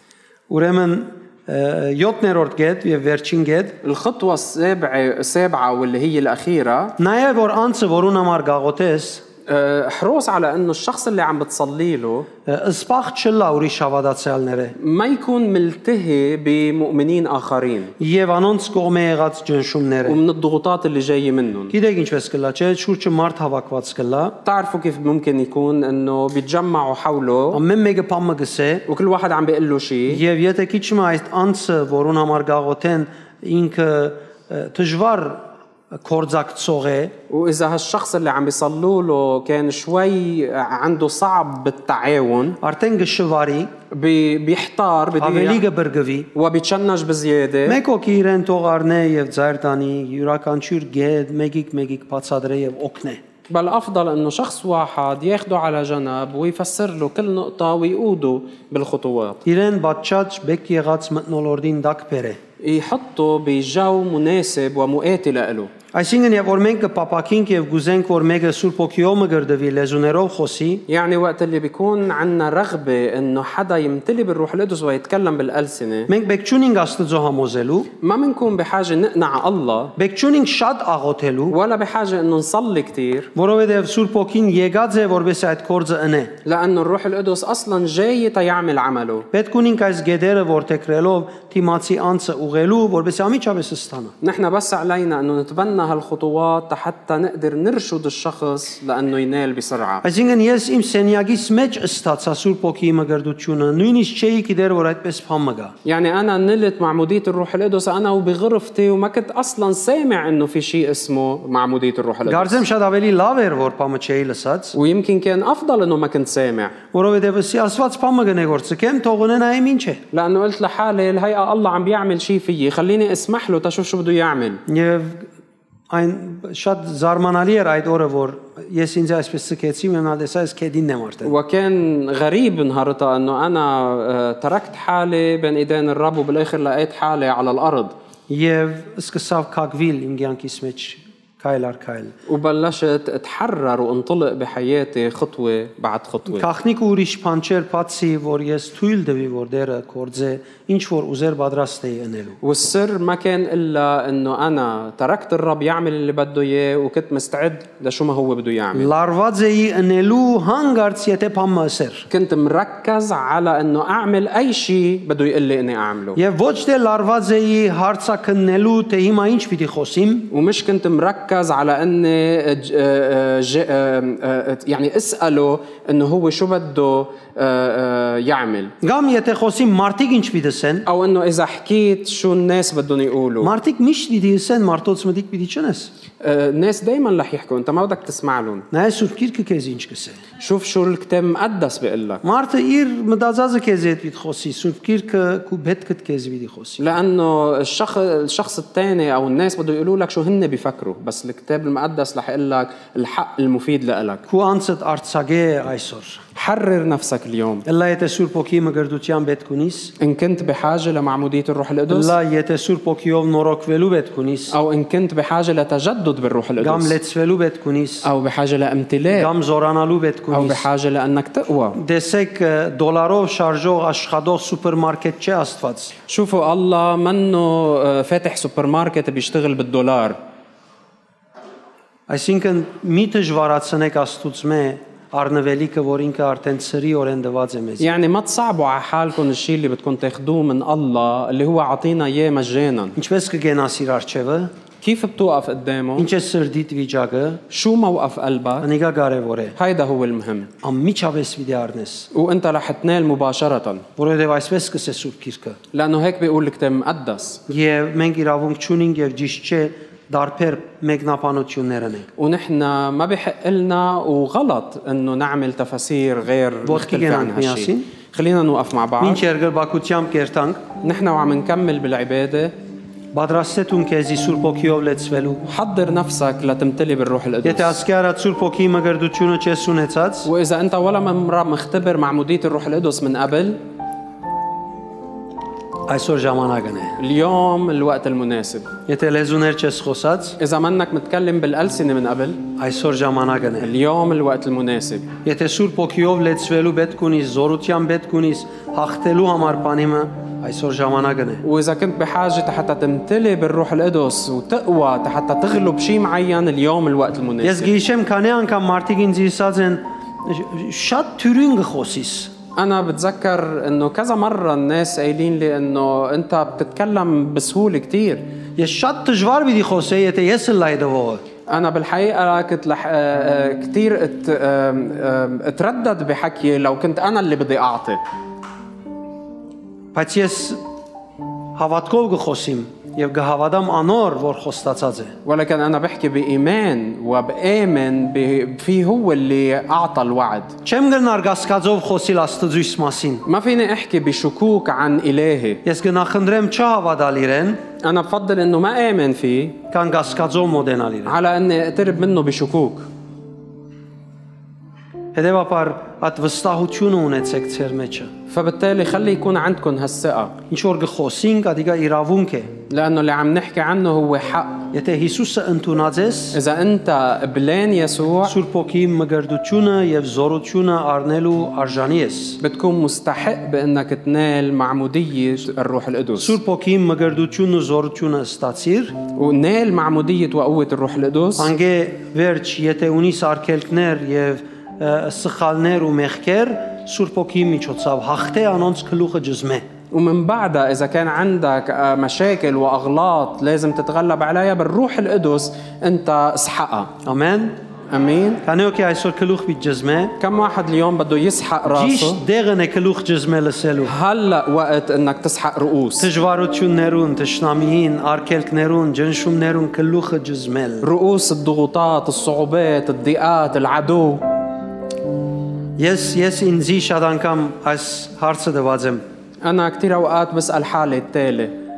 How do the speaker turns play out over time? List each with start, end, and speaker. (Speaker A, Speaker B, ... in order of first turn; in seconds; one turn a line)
Speaker A: 0.5-3.8
Speaker B: 3.8-7.0
Speaker A: 7.0-9.2
Speaker B: 9.5-12.3
Speaker A: 12.5-14.8
Speaker B: 14.8-17.9
Speaker A: 18.0-20.2
Speaker B: 20.1-21.7
Speaker A: 21.7-24.4
Speaker B: 24.4-27.6
Speaker A: 27.5-28.8
Speaker B: 28.9-30.2
Speaker A: 30.1-35.5
Speaker A: 36.0-37.1
Speaker B: 37.3-42.6
Speaker A: 42.6-43.7
Speaker B: 43.9-45.6
Speaker A: 45.2-46.3
Speaker B: 46.4-47.8
Speaker A: 47.7-53.2
Speaker B: 53.5-59.4
Speaker A: 59.5-62.4
Speaker B: 62.6-65.7
Speaker A: 65.9-70.8
Speaker B: 70.9-76.1
Speaker A: 76.1-77.9
Speaker B: 78.0-79.9
Speaker A: 80.0-81.6
Speaker B: 81.5-83.3
Speaker A: 83.3-86.3
Speaker B: 86.5-89.3
Speaker A: 89.3-94.1
Speaker B: 94.2-100.0
Speaker A: 100.0-105.7
Speaker B: 105.8-112.7
Speaker A: 112.3-114.8
Speaker B: 114.8-116.8
Speaker A: 116.9-120.0
Speaker B: 120.1-124.6
Speaker A: 124.7-125.3
Speaker A: 125.9-131.3
Speaker B: 131.2-137.9
Speaker A: 138.3-142.2
Speaker B: 142.3-146.5
Speaker A: 146.3-152.4
Speaker B: 152.4-158.9
Speaker A: 158.8-162.1
Speaker B: 162.1-166.2
Speaker A: 166.2-170.3
Speaker B: 170.3-178.7
Speaker A: 178.8-180.9
Speaker B: 180.9-183.5
Speaker A: 183.4-185.9
Speaker B: 186.2-188.7
Speaker A: 188.7-190.2
Speaker B: 190.4-192.2
Speaker A: 192.2-196.8
Speaker B: 196.8-204.2
Speaker A: 204.3-206.2
Speaker B: 206.3-207.7
Speaker A: 207.7-209.9
Speaker B: 210.0-212.2
Speaker A: 211.9-214.6
Speaker B: 214.5-217.0
Speaker A: 216.6-218.1
Speaker B: 218.0-219.3
Speaker A: 219.1-220.7
Speaker B: 220.3-221.8
Speaker A: 221.8-225.9
Speaker B: 226.1-230.2
Speaker A: 232.1-237.9
Speaker B: 237.8-242.9
Speaker A: 243.0-244.5
Speaker B: 244.8-246.1
Speaker A: 246.0-247.4
Speaker B: 247.5-248.7
Speaker A: 248.6-249.6
Speaker B: 249.6-250.5
Speaker A: 250.6-252.1
Speaker B: 252.1-253.9
Speaker A: 254.0-255.6
Speaker B: 255.7-257.4
Speaker A: 257.5-262.1
Speaker B: 262.2-269.2
Speaker A: 266.7-267.9
Speaker A: 269.0-270.6
Speaker B: 270.8-272.5
Speaker A: 273.1-275.4
Speaker B: 275.5-277.8
Speaker A: 277.4-280.3
Speaker B: 280.3-283.6
Speaker A: 285.9-287.0
Speaker B: 287.0-288.7
Speaker A: 288.9-290.4
Speaker B: 290.4-292.4
Speaker A: 292.6-293.7
Speaker B: 293.6-295.1
Speaker A: 295.2-301.4
Speaker B: 301.4-307.7
Speaker A: 307.4-312.3
Speaker B: 312.6-318.2
Speaker A: 318.6-321.2
Speaker B: 321.5-328.0
Speaker A: 329.9-330.6
Speaker A: 331.6-335.1
Speaker B: 335.2-340.6
Speaker A: 340.6-343.2
Speaker B: 343.3-345.6
Speaker A: 345.6-347.6
Speaker B: 347.8-349.6
Speaker A: 349.7-351.1
Speaker B: 351.1-352.9
Speaker A: 355.1-358.1
Speaker B: 358.3-360.4
Speaker A: 360.5-362.5
Speaker B: 362.7-364.7
Speaker A: 364.7-366.4
Speaker B: 366.3-368.4
Speaker A: 368.2-372.4
Speaker B: 372.4-376.4
Speaker A: 376.2-379.0
Speaker B: 379.1-381.5
Speaker A: 381.4-389.6
Speaker B: 389.9-396.9
Speaker A: 397.1-397.6
Speaker B: 397.9-398.4
Speaker A: 398.4-400.1
Speaker B: 400.2-402.2
Speaker A: 401.7-403.9
Speaker B: 403.9-406.1
Speaker A: 406.0-410.9
Speaker B: 410.8-414.2
Speaker A: 415.8-419.0
Speaker B: 419.4-421.5